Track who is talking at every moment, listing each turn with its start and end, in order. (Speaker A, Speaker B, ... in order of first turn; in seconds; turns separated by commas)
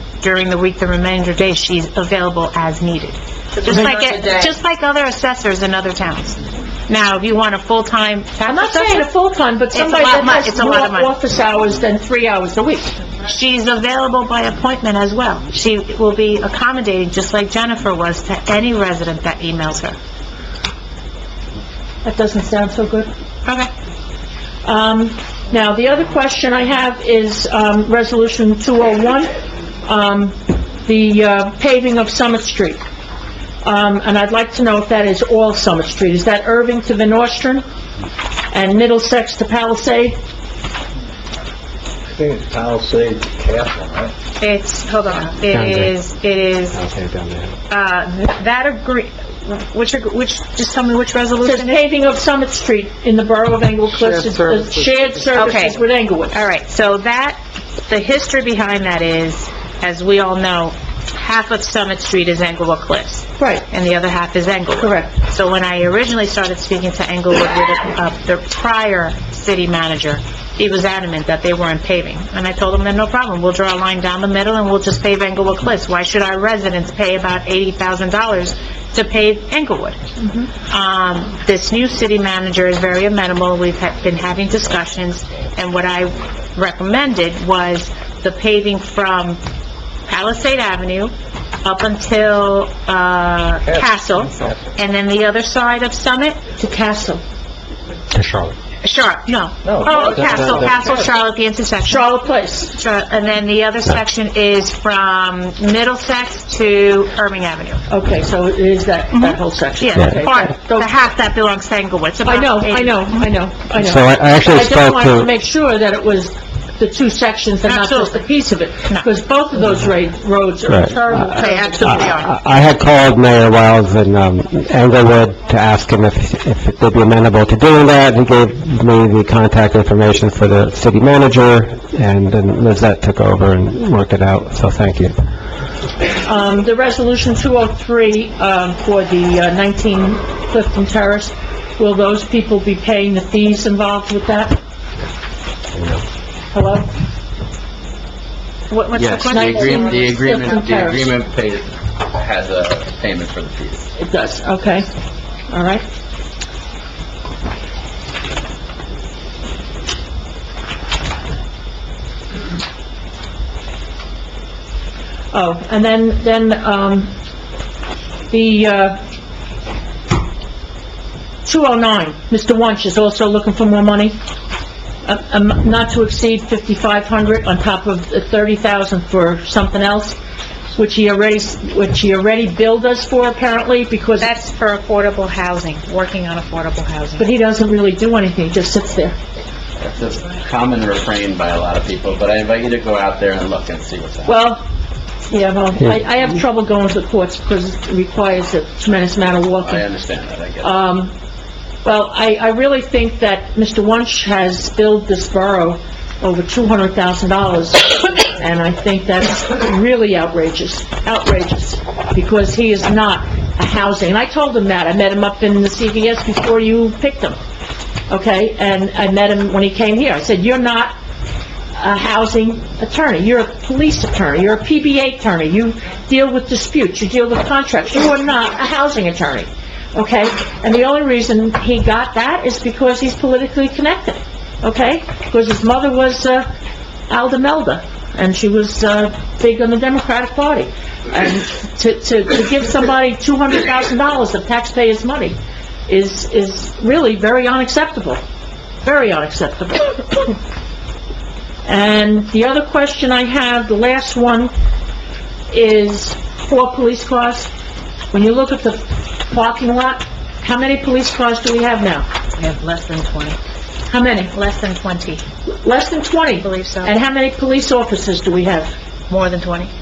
Speaker A: 0.2-9.1, Speaker B: 3.7-4.5, Speaker B: 8.4-12.9, Speaker A: 9.7-11.1, Speaker A: 13.3-20.0, Speaker B: 22.0-23.1, Speaker B: 24.6-29.3, Speaker B: 29.8-32.8, Speaker B: 33.6-37.6, Speaker B: 38.5-40.2, Speaker C: 42.1-44.1, Speaker A: 44.4-46.8, Speaker D: 45.5-46.0, Speaker D: 46.7-47.5, Speaker A: 47.7-51.8, Speaker B: 51.4-56.4, Speaker A: 55.3-55.8, Speaker A: 56.3-80.0, Speaker B: 63.4-63.7, Speaker B: 64.8-65.1, Speaker B: 80.2-80.5, Speaker A: 80.7-89.4, Speaker A: 90.1-96.4, Speaker C: 93.6-94.1, Speaker B: 96.6-97.2, Speaker A: 98.8-107.8, Speaker C: 99.6-101.1, Speaker B: 101.8-102.7, Speaker B: 107.9-110.9, Speaker A: 109.1-113.1, Speaker B: 112.2-122.2, Speaker D: 113.8-115.3, Speaker A: 117.6-118.2, Speaker D: 120.7-135.3, Speaker A: 121.3-122.3, Speaker B: 136.2-144.6, Speaker B: 146.5-146.9, Speaker A: 148.7-150.6, Speaker E: 149.0-153.8, Speaker B: 149.3-151.0, Speaker B: 154.0-154.9, Speaker B: 155.5-155.8, Speaker B: 165.3-167.1, Speaker B: 168.3-169.0, Speaker B: 171.4-174.2, Speaker B: 175.0-180.2, Speaker B: 180.8-184.3, Speaker A: 184.2-187.3, Speaker B: 187.2-189.1, Speaker E: 189.8-194.3, Speaker B: 194.2-194.6, Speaker B: 195.3-199.8, Speaker E: 199.6-200.8, Speaker B: 200.6-201.1, Speaker B: 201.8-217.4, Speaker B: 218.1-220.9, Speaker B: 221.8-236.4, Speaker B: 237.1-245.3, Speaker B: 245.9-248.2, Speaker B: 248.8-250.3, Speaker B: 251.7-254.5, Speaker B: 255.5-257.5, Speaker B: 258.1-262.1, Speaker A: 262.4-263.4, Speaker B: 263.9-264.3, Speaker A: 264.3-265.2, Speaker B: 265.6-268.7, Speaker A: 266.4-266.9, Speaker A: 269.1-269.7